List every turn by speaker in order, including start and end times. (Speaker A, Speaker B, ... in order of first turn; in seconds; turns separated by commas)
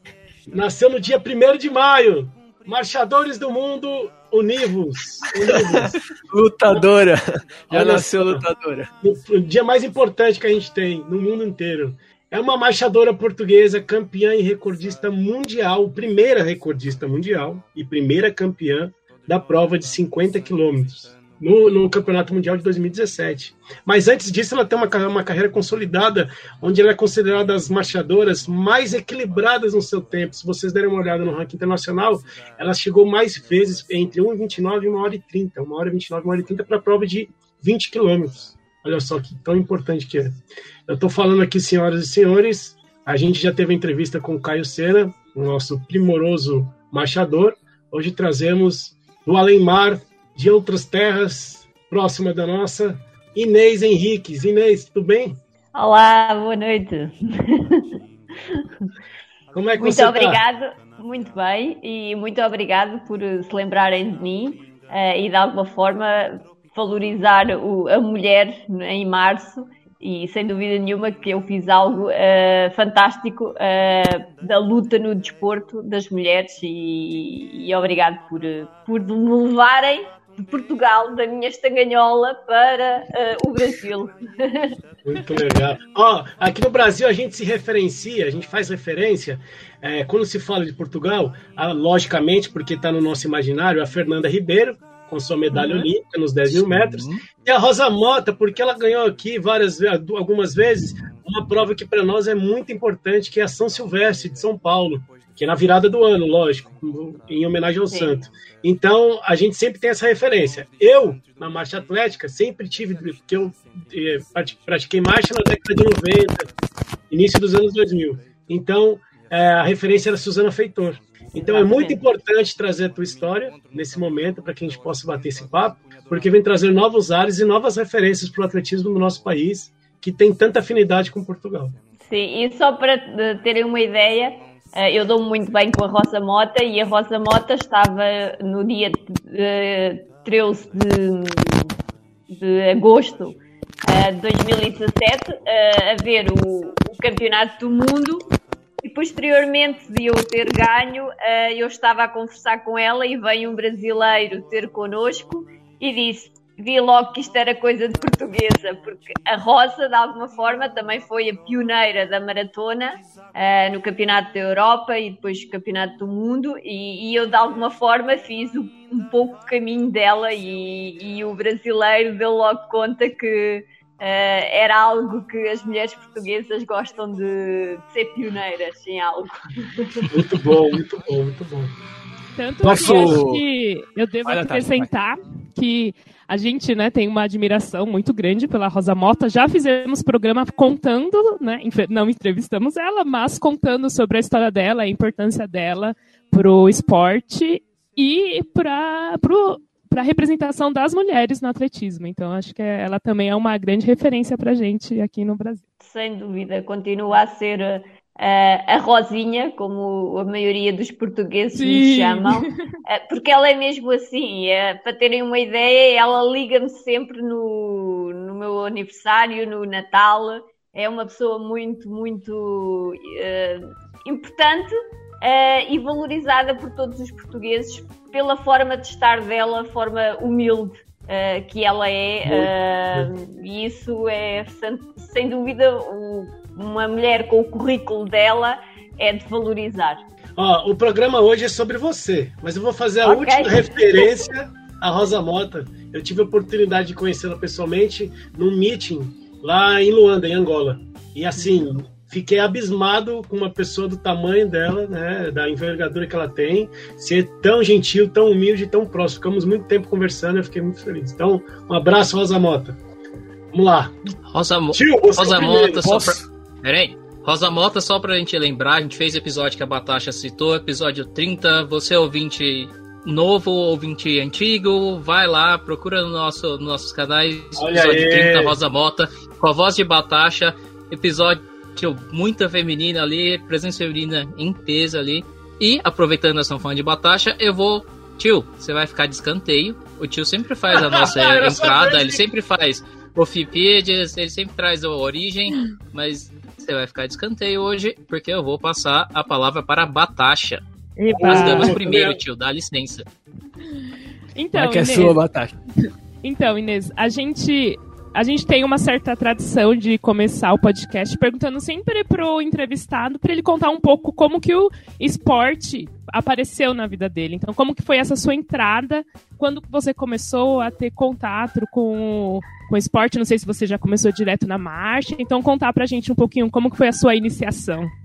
Speaker A: 0.5-6.0, Speaker B: 5.3-8.9, Speaker A: 7.7-8.4, Speaker A: 9.0-55.4, Speaker C: 55.8-57.9, Speaker A: 59.5-60.4, Speaker C: 59.8-84.8, Speaker A: 85.0-116.5, Speaker D: 96.5-97.2, Speaker C: 107.9-108.1, Speaker A: 117.1-131.7, Speaker C: 121.3-122.0, Speaker C: 132.0-141.7, Speaker C: 142.3-148.2, Speaker C: 148.8-179.4, Speaker A: 180.1-181.7, Speaker E: 182.4-205.6, Speaker A: 182.6-183.2, Speaker B: 182.6-183.4, Speaker B: 184.2-184.9, Speaker C: 205.8-240.0, Speaker E: 211.5-212.7, Speaker A: 232.2-233.1, Speaker A: 240.4-262.8, Speaker C: 243.0-244.1, Speaker A: 263.5-264.0, Speaker D: 264.3-300.6, Speaker A: 264.7-266.0, Speaker B: 265.9-266.2, Speaker A: 277.6-278.6, Speaker A: 290.7-292.2, Speaker E: 301.0-301.8, Speaker A: 301.1-302.2, Speaker D: 301.2-303.1, Speaker E: 304.3-305.2, Speaker B: 304.5-305.6, Speaker E: 306.2-327.9